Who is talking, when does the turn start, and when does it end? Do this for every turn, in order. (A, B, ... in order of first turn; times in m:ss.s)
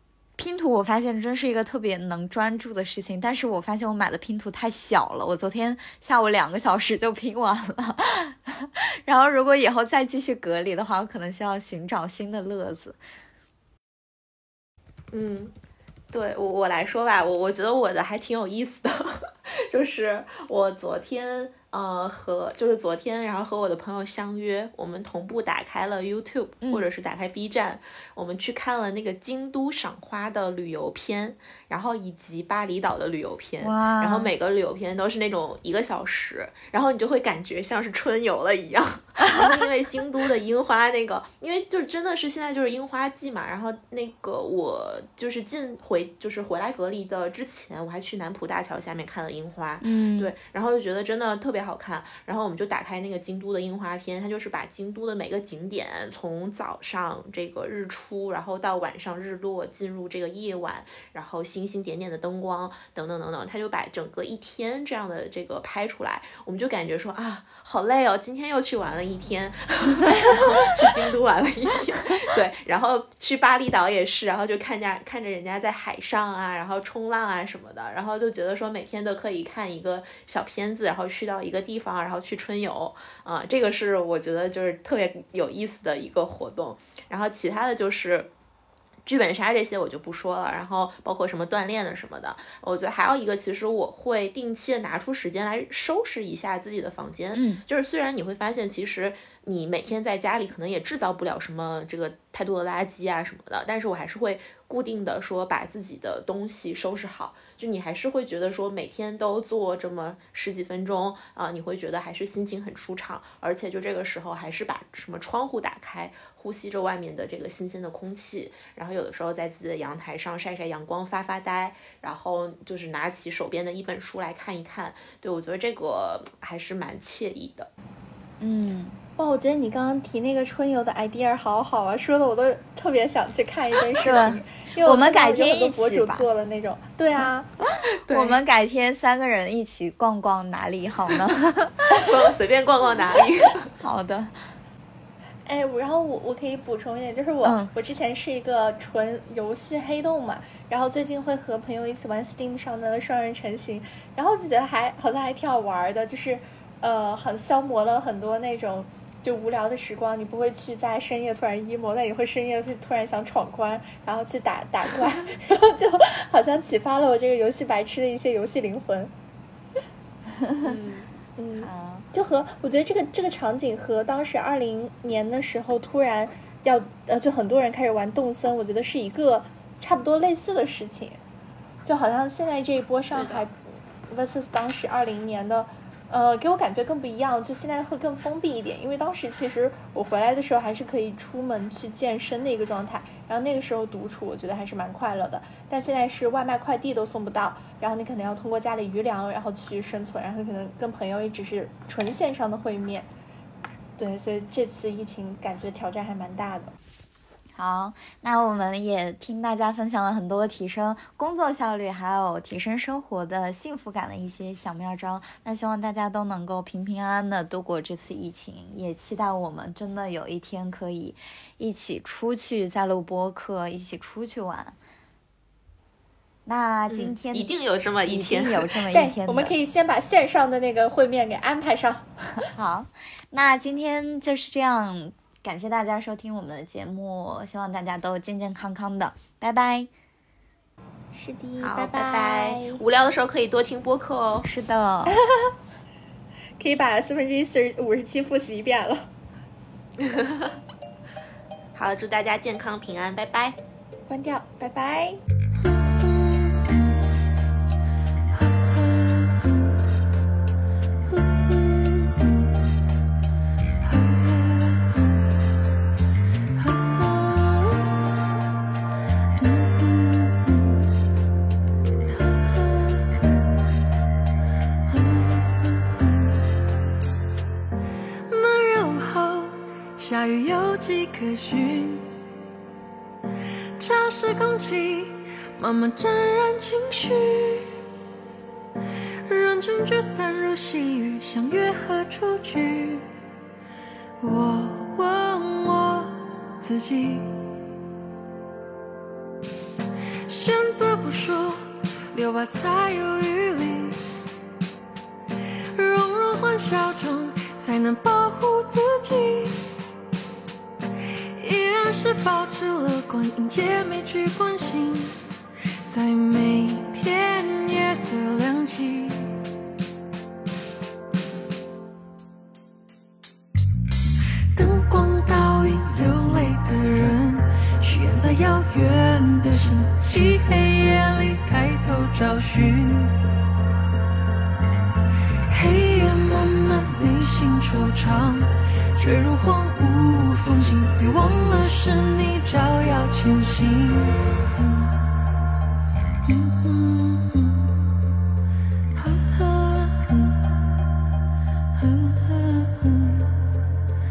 0:00.4-0:13.0 A
0:15.1-0:15.5 B
0:16.1-1:28.3 B
0:33.6-0:34.3 A
0:49.8-0:50.3 A
1:29.0-2:07.7 B
1:37.3-1:37.6 A
2:08.4-2:09.0 A
2:09.2-2:17.5 C
2:14.0-2:16.3 A
2:18.0-2:18.4 B
2:18.1-2:22.1 A
2:21.9-2:23.7 B
2:23.8-2:24.4 A
2:25.5-2:49.1 C
2:27.4-2:27.7 A
2:50.6-2:51.1 B
2:51.4-3:01.2 C
2:51.6-2:52.1 A
3:01.8-3:03.6 C
3:03.1-3:03.5 B
3:04.1-3:23.1 C
3:24.0-3:26.7 C
3:27.6-3:44.8 A
3:46.5-3:47.5 A
3:46.9-3:48.8 B
3:48.1-3:49.5 A
3:48.9-3:52.1 C
3:52.5-3:59.9 A
4:01.1-4:02.8 C
4:01.6-4:04.5 B
4:04.4-4:05.2 A
4:05.1-4:05.5 C
4:06.6-4:09.1 C
4:10.0-4:10.6 B
4:11.8-4:13.6 B
4:14.1-4:15.2 C
4:15.6-4:16.9 D
4:18.3-4:19.8 D
4:21.1-4:22.5 D
4:23.8-4:25.3 D
4:26.6-4:28.0 D
4:29.4-4:30.9 D
4:32.1-4:33.5 D
4:34.9-4:36.4 D
4:38.3-4:42.1 D
4:43.8-4:47.8 D
4:49.3-4:53.1 D
4:54.2-4:57.5 D
5:00.3-5:04.0 D
5:05.7-5:09.6 D
5:11.0-5:15.2 D
5:15.9-5:19.3 D
5:24.5-5:33.2 D
5:35.5-5:45.0 D
5:46.2-5:47.8 D
5:48.9-5:50.6 D
5:51.8-5:53.3 D